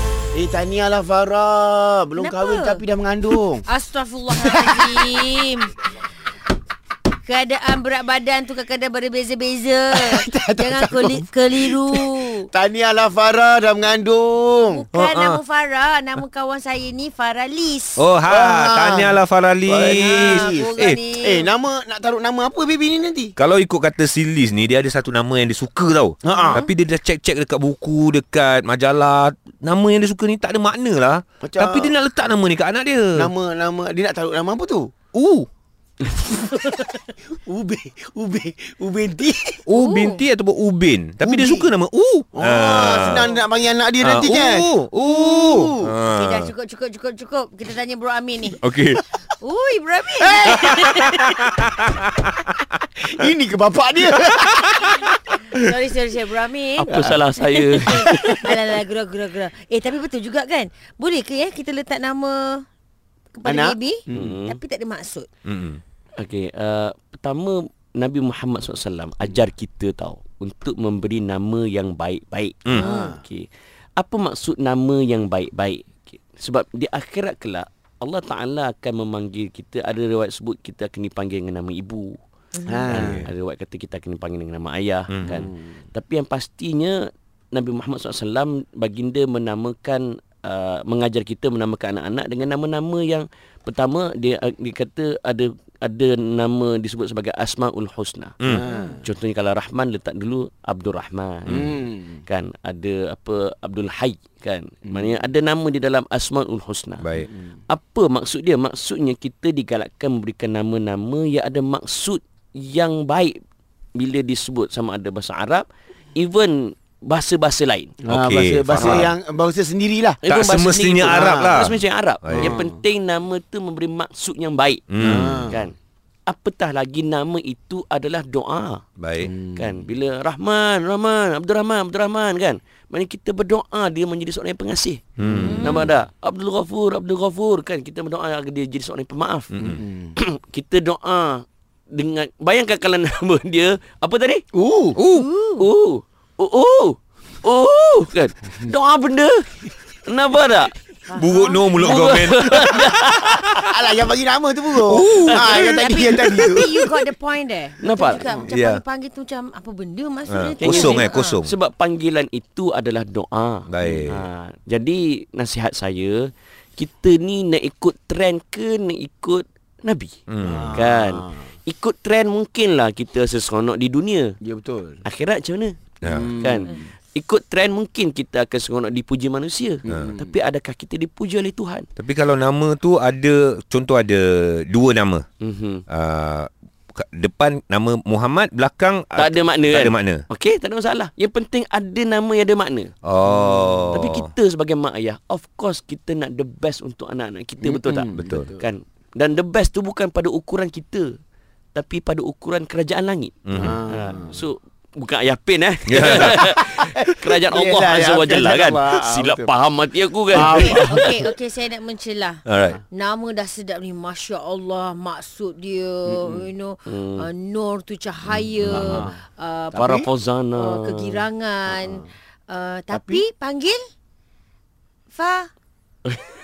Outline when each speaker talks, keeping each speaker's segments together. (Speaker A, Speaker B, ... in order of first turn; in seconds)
Speaker A: 0.3-3.6, 4.3-5.3, 9.9-14.9, 18.3-23.3, 26.2-26.6, 31.4-31.9, 33.2-34.9, 37.4-39.6, 41.2-41.7, 42.4-45.9, 50.2-51.8, 53.0-55.8, 56.9-58.4, 63.5-64.4, 72.7-73.2, 82.7-83.2, 85.3-85.5, 98.5-99.0, 101.5-102.2, 104.9-105.2, 118.0-120.2, 121.1-121.7, 122.4-122.7, 125.0-125.6, 129.2-129.9, 135.2-135.6, 139.6-140.2, 144.5-145.0, 153.6-157.0, 170.4-171.5, 174.4-175.0, 176.0-176.8, 179.8-180.3, 193.3-193.9, 197.6-198.6, 203.6-204.4, 206.1-209.5, 210.3-211.3, 216.1-216.4, 218.7-219.2, 219.7-220.1, 221.7-222.0, 222.9-223.2
Speaker B: 2.2-2.8, 3.7-5.7, 7.3-12.5, 14.7-18.1, 20.1-21.5, 26.3-26.7, 39.7-40.2, 46.1-48.6, 49.4-51.1, 55.5-56.9, 57.5-62.6, 63.3-65.3, 72.9-73.2, 82.6-82.8, 135.4-135.9, 145.1-145.7, 151.1-151.7, 155.5-161.4, 210.6-219.9, 220.6-223.8, 225.1-225.5
Speaker C: 14.9-15.4, 18.0-21.1, 23.4-33.3, 35.1-35.5, 39.7-43.3, 44.0-46.5, 48.6-49.0, 50.5-52.4, 65.5-65.8, 85.1-85.4, 98.4-98.7, 107.0-107.3, 118.1-119.1, 120.3-122.6, 124.9-125.5, 129.0-129.3, 135.2-135.7, 139.5-139.8, 144.9-145.3, 151.1-153.6, 154.8-156.4, 158.4-158.8, 160.3-161.5, 163.7-164.3, 170.3-170.8, 176.0-176.3, 182.0-185.2, 185.9-190.2, 193.0-194.3, 198.1-198.5, 203.5-203.8, 205.9-206.4, 212.4-212.8
Speaker D: 56.8-58.5, 64.1-64.6, 66.2-73.5, 74.0-82.2, 82.9-98.4, 99.0-107.1, 107.7-113.3, 114.0-117.9, 118.7-119.1, 120.2-125.8, 126.3-128.8, 129.6-139.6, 140.2-144.4, 145.6-149.5, 150.0-150.8, 151.7-153.7, 155.2-155.7, 157.8-158.3, 160.6-170.2, 170.7-174.3, 175.1-181.9, 185.4-185.8, 189.2-192.9, 193.9-201.1, 201.7-211.2, 216.9-217.3, 219.8-221.3